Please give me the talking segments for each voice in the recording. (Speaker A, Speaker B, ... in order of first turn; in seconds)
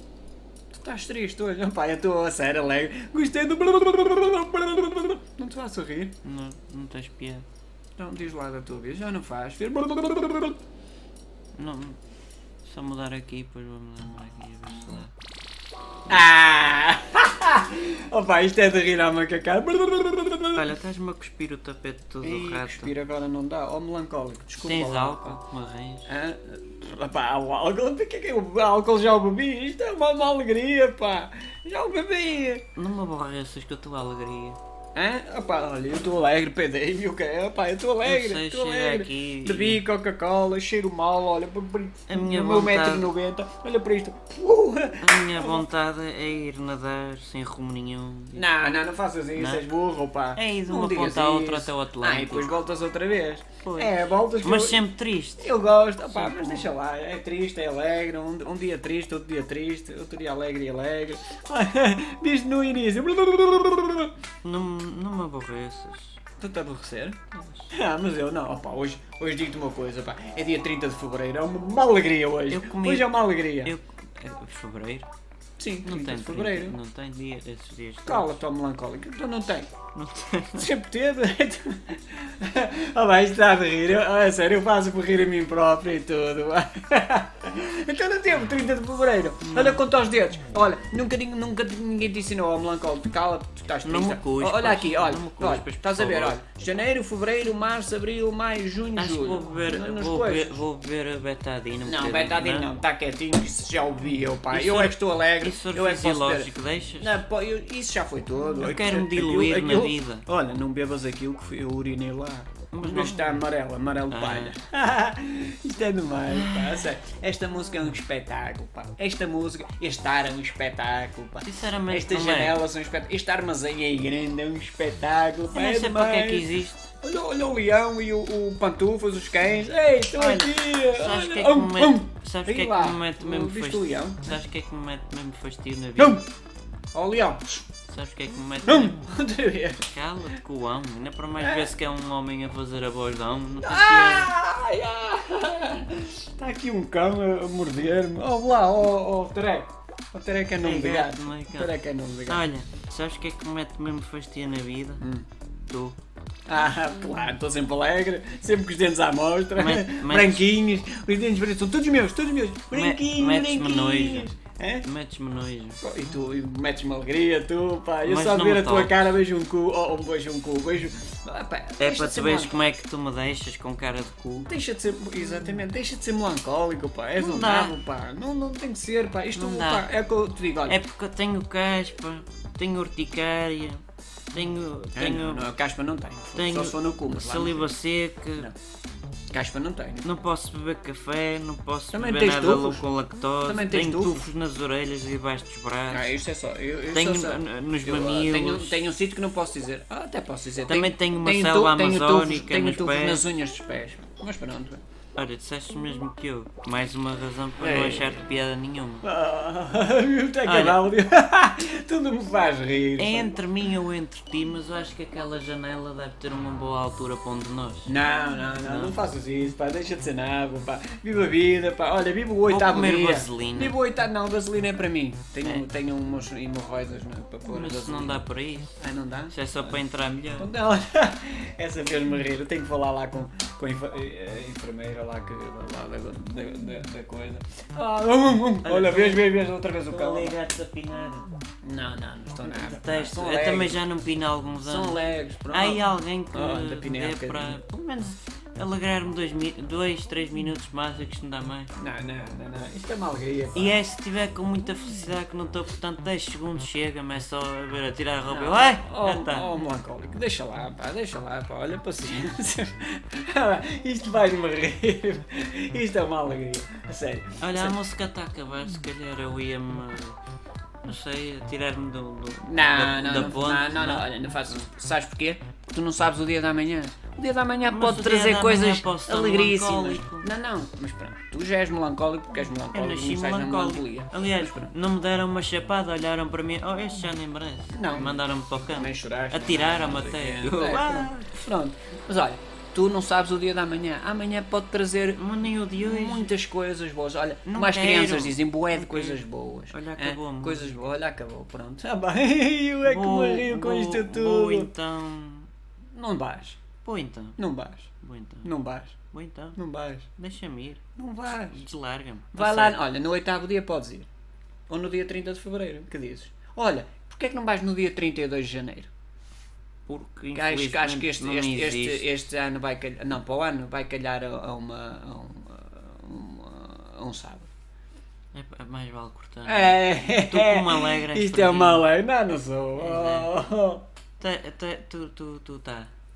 Speaker A: 0.7-6.2, 8.0-10.6, 16.1-20.7, 22.2-25.4, 26.1-32.7, 35.0-45.7, 48.4-54.9, 55.4-64.1, 66.4-67.2, 67.7-73.8, 75.6-76.8, 78.1-79.7, 80.6-100.6, 101.8-126.5, 127.0-134.3, 136.0-136.3, 136.9-137.7, 138.7-139.8, 141.4-141.7, 143.6-152.4, 155.0-155.3, 156.5-164.9, 165.8-172.6, 174.5-180.8, 185.0-187.7, 189.3-190.1, 191.9-192.8, 193.4-194.3, 195.9-204.8, 207.6-208.2, 209.0-213.3, 217.9-228.2, 228.8-229.8, 230.4-240.4, 241.6-243.8, 244.6-247.6, 251.8-253.8, 258.3-267.8, 272.4-284.7, 287.7-304.7, 305.9-306.6, 307.4-307.9, 308.4-309.0, 309.6-310.1, 311.0-311.6, 312.3-314.1, 314.7-318.9, 320.3-327.5, 329.5-333.8
Speaker B: 6.2-7.5, 11.6-12.0, 12.6-15.1, 20.6-22.9, 24.6-26.1, 32.8-34.6, 38.0-39.8, 42.1-43.1, 45.0-48.4, 49.4-49.6, 50.4-52.6, 53.6-56.6, 64.4-66.2, 67.3-67.7, 72.5-75.1, 75.8-78.4, 79.9-80.7, 89.4-89.8, 93.8-96.4, 99.0-102.7, 104.5-107.2, 108.6-110.2, 112.7-113.3, 114.1-114.6, 116.3-116.9, 121.5-122.6, 125.5-126.9, 130.1-136.2, 137.9-139.0, 139.8-144.3, 150.6-151.8, 152.3-155.0, 155.7-156.0, 159.5-160.5, 162.7-164.3, 164.9-165.8, 168.0-169.1, 171.8-174.5, 177.2-177.8, 179.3-179.9, 180.7-185.5, 186.3-188.5, 190.0-196.1, 196.9-198.8, 200.7-203.2, 205.2-209.1, 210.4-210.9, 213.0-217.9, 218.6-219.0, 222.5-223.8, 227.5-228.8, 229.3-230.5, 238.6-239.3, 239.9-241.3, 242.4-245.0, 245.5-251.7, 253.6-259.6, 267.4-270.2, 270.8-274.6, 277.7-280.3, 282.7-291.3, 295.2-296.3, 297.5-300.8, 302.8-305.5, 306.8-307.4, 308.0-308.5, 309.1-309.6, 310.2-310.8, 311.5-312.8, 319.9-322.1, 328.3-331.9, 332.8-333.3, 334.2-335.9